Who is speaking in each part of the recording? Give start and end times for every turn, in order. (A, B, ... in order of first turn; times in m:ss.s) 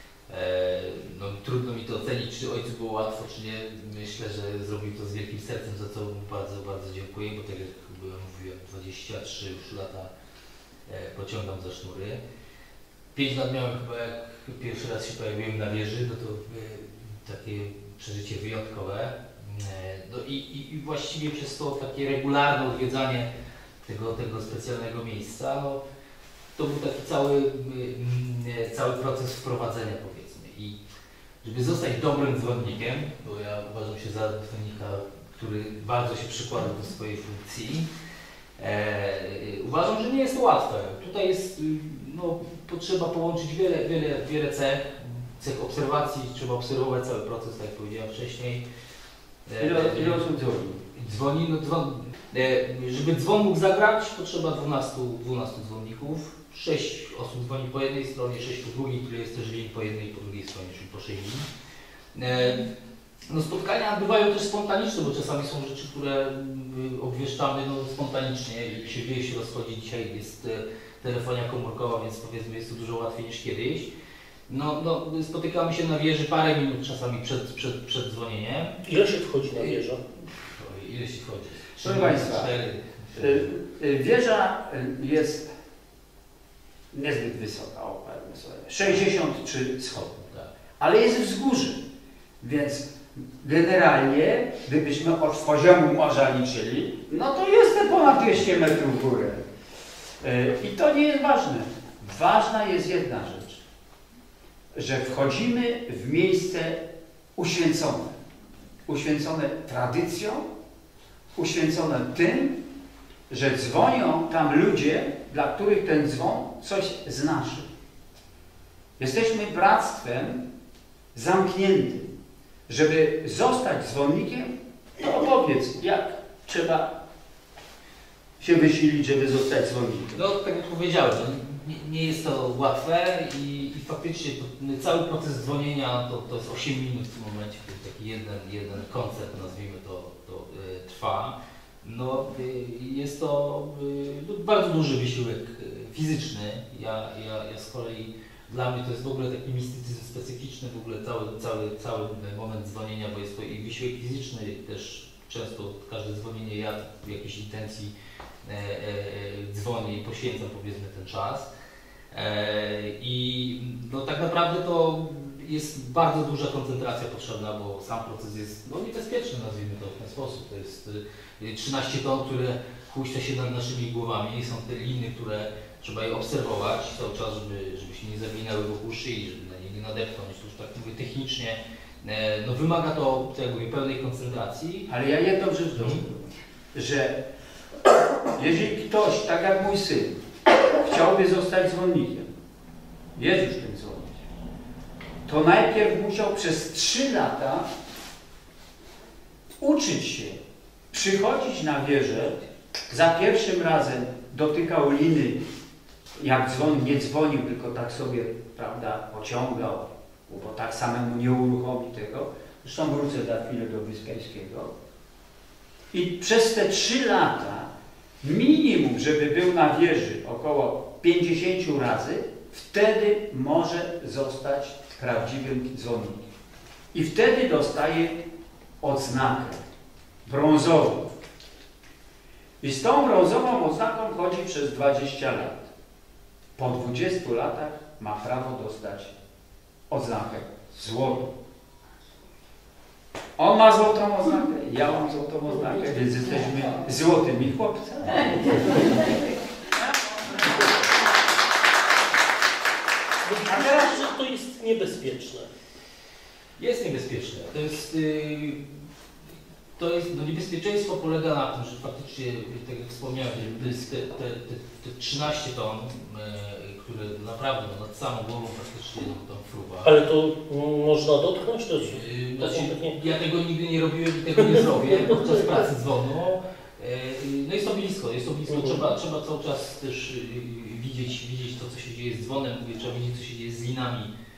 0:00.3-0:10.1 A
0:10.9-0:12.2 A
0:13.1-0:23.3 A
0:23.8-0:25.8 A
0:26.6-0:30.8 A
0:31.4-0:37.9 A
0:38.6-0:48.6 A
0:49.5-0:50.2 A
0:49.6-0:50.8 B
0:50.9-1:01.5 A
1:02.1-1:02.6 A
1:03.3-1:13.9 A
1:14.5-1:18.8 A
1:18.8-1:20.0 C
1:19.5-1:19.8 A
1:20.5-1:23.5 A
1:21.8-1:22.5 B
1:23.1-1:25.5 B
1:26.9-1:31.8 B
1:32.4-1:39.4 B
1:40.2-1:43.6 B
1:44.7-1:46.8 B
1:47.4-1:48.2 B
1:48.9-1:50.5 B
1:51.4-1:52.6 B
1:53.3-1:57.7 B
1:59.0-2:00.4 B
2:01.1-2:02.1 B
2:02.7-2:06.9 B
2:08.4-2:10.1 B
2:10.1-2:37.9 A
2:38.4-2:41.5 A
2:42.1-3:04.9 A
3:04.9-3:07.2 B
3:05.8-3:06.0 A
3:08.4-3:10.2 B
3:10.7-3:12.3 B
3:13.2-3:14.2 B
3:15.3-3:17.7 B
3:19.6-3:25.4 B
3:26.2-3:34.7 B
3:35.9-3:37.7 B
3:38.2-3:46.3 B
3:46.9-3:48.2 B
3:48.8-3:49.6 B
3:50.2-3:51.1 B
3:52.6-3:55.7 B
3:56.6-3:59.1 B
3:59.9-4:01.3 B
4:03.4-4:09.2 B
4:13.2-4:15.5 C
4:16.6-4:18.8 A
4:19.8-4:29.9 A
4:29.8-4:33.0 C
4:31.8-4:44.1 A
4:34.5-4:35.5 C
4:38.5-4:38.8 C